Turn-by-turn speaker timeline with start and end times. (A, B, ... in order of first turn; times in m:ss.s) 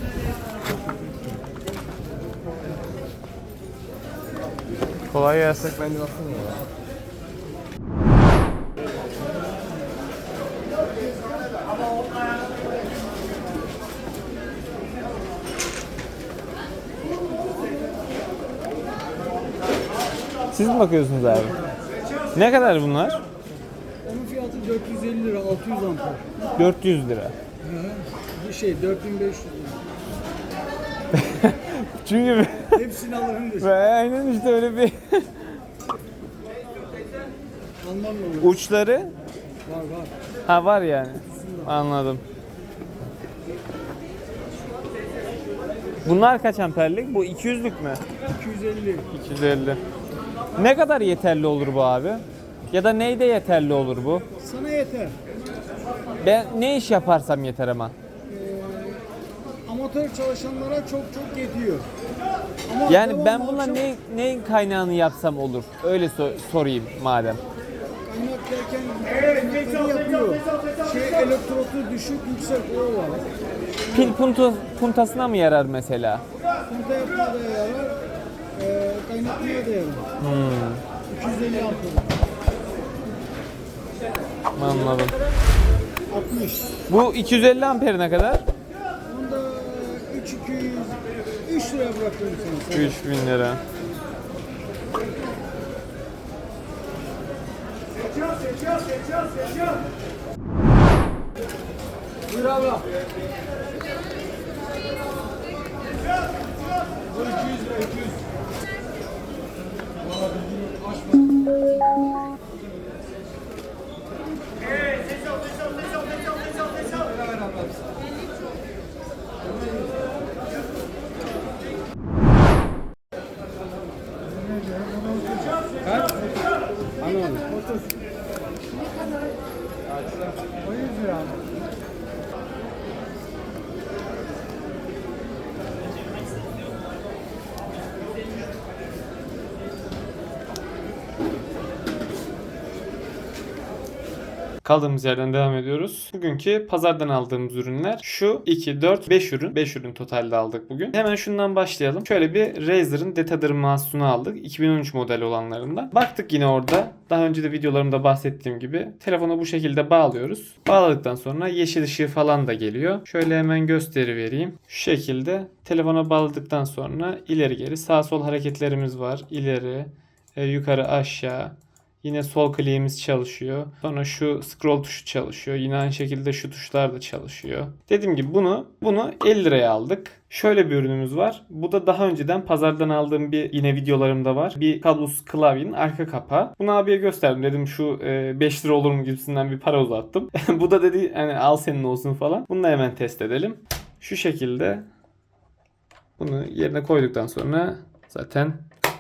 0:05.1-0:05.8 A
0:05.8-0:06.6 B
0:20.5-0:21.6 A
0:22.4-0:23.2 A
0:24.0-0:26.2 C
0:26.6-0:27.4 A
0:27.6-0:29.8 C
0:31.2-0:32.8 A
0:32.7-0:33.7 C
0:33.6-0:35.3 A
0:37.8-0:38.6 C
0:38.4-0:39.1 A
0:39.7-0:40.1 C
0:40.5-0:42.2 A
0:41.4-0:41.7 C
0:46.0-0:48.0 A
0:48.4-0:49.1 C
0:49.1-0:49.8 A
0:50.6-0:54.2 A
0:54.4-0:55.2 C
0:56.2-0:58.0 A
0:58.3-0:59.0 C
0:59.7-1:01.9 C
1:02.7-1:03.9 C
1:02.9-1:07.4 A
1:08.0-1:13.3 C
1:13.9-1:16.2 A
1:16.7-1:18.0 C
1:18.6-1:20.0 C
1:20.2-1:20.8 A
1:21.1-1:22.2 C
1:24.6-1:25.2 A
1:26.1-1:26.7 C
1:26.9-1:28.4 A
1:29.1-1:33.0 C
1:32.7-1:33.6 A
1:42.3-1:42.8 B
1:47.1-1:48.2 B
1:50.0-1:51.2 B
1:56.9-1:58.0 B
2:04.5-2:06.2 C
2:07.0-2:07.9 C
2:10.8-2:11.3 C
2:24.6-3:14.8 A
3:16.2-3:18.6 A